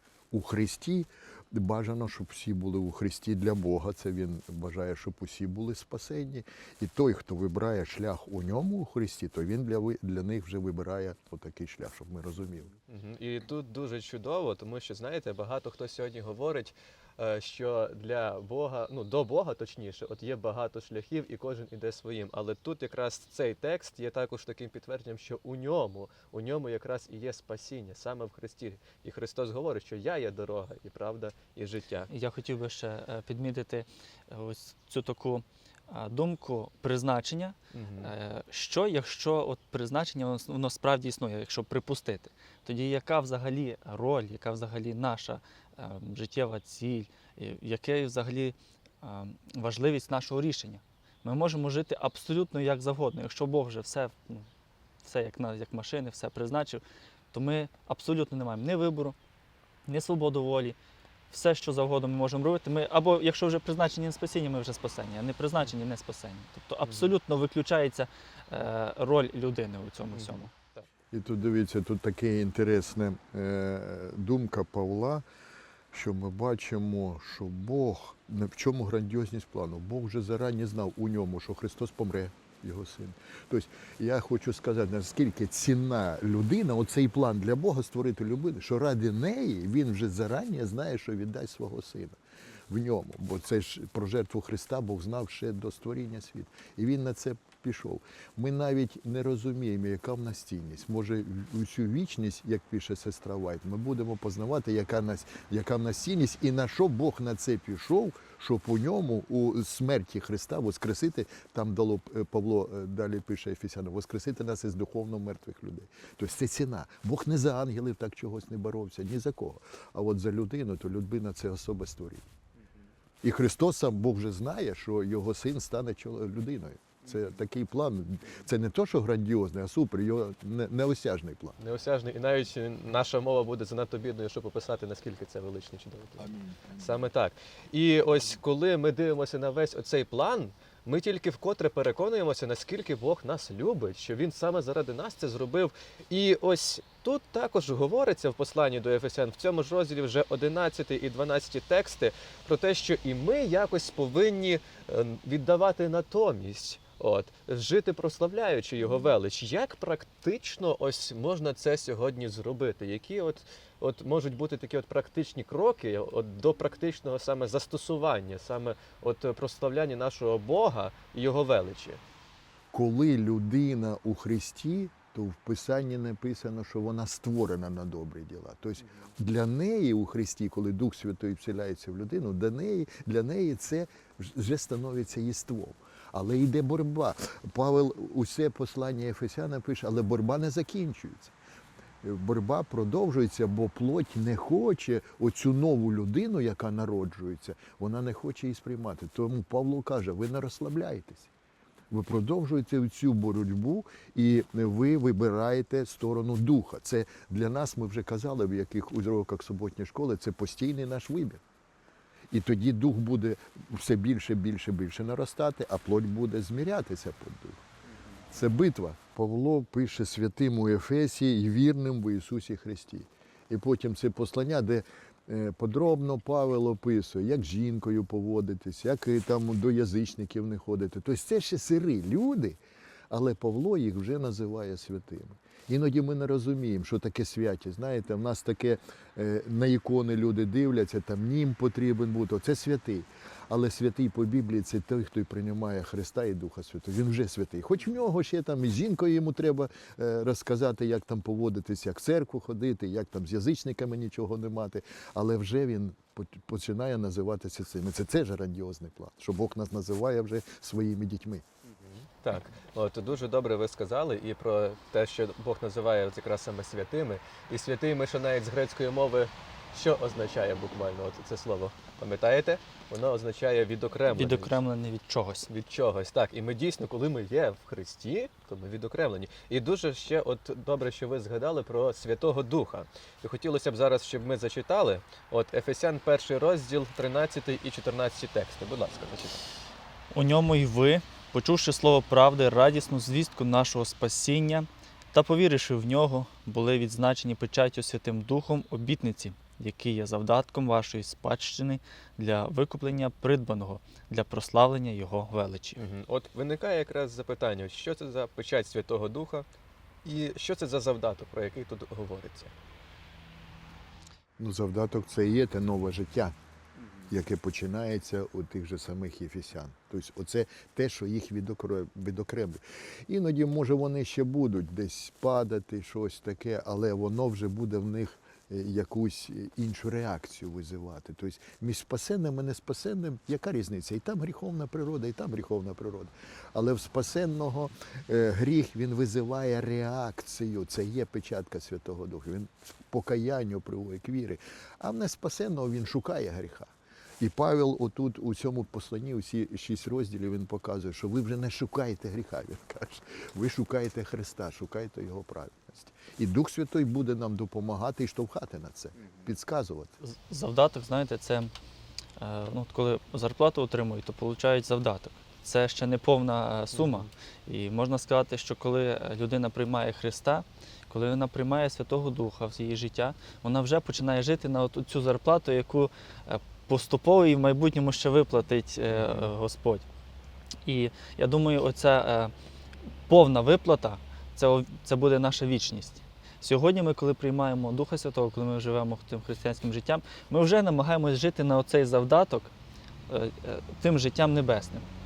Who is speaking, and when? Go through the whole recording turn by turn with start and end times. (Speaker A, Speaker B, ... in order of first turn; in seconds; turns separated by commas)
Speaker A: 0.3-12.7, Speaker B: 12.9-32.1, Speaker C: 32.1-54.5, Speaker B: 37.7-38.1, Speaker C: 55.0-59.1, Speaker C: 59.9-60.8, Speaker C: 61.3-70.5, Speaker B: 66.8-67.1, Speaker B: 70.1-70.9, Speaker A: 71.1-75.2, Speaker A: 75.9-92.2, Speaker A: 92.7-122.2, Speaker A: 123.2-131.6, Speaker B: 131.6-172.0, Speaker A: 136.5-136.8, Speaker A: 172.7-191.3, Speaker A: 192.0-201.3, Speaker A: 201.9-211.4, Speaker A: 212.3-217.6, Speaker A: 218.3-232.6, Speaker A: 233.1-261.4, Speaker B: 261.7-274.6, Speaker C: 274.1-275.5, Speaker B: 275.5-289.5, Speaker C: 290.1-305.8, Speaker B: 305.8-309.5, Speaker B: 310.0-312.5, Speaker A: 314.4-316.4, Speaker A: 317.1-359.9, Speaker C: 360.0-361.5, Speaker C: 362.2-379.9, Speaker B: 366.7-367.1, Speaker B: 378.9-379.3, Speaker C: 380.6-382.3, Speaker C: 383.1-392.5, Speaker C: 393.1-394.9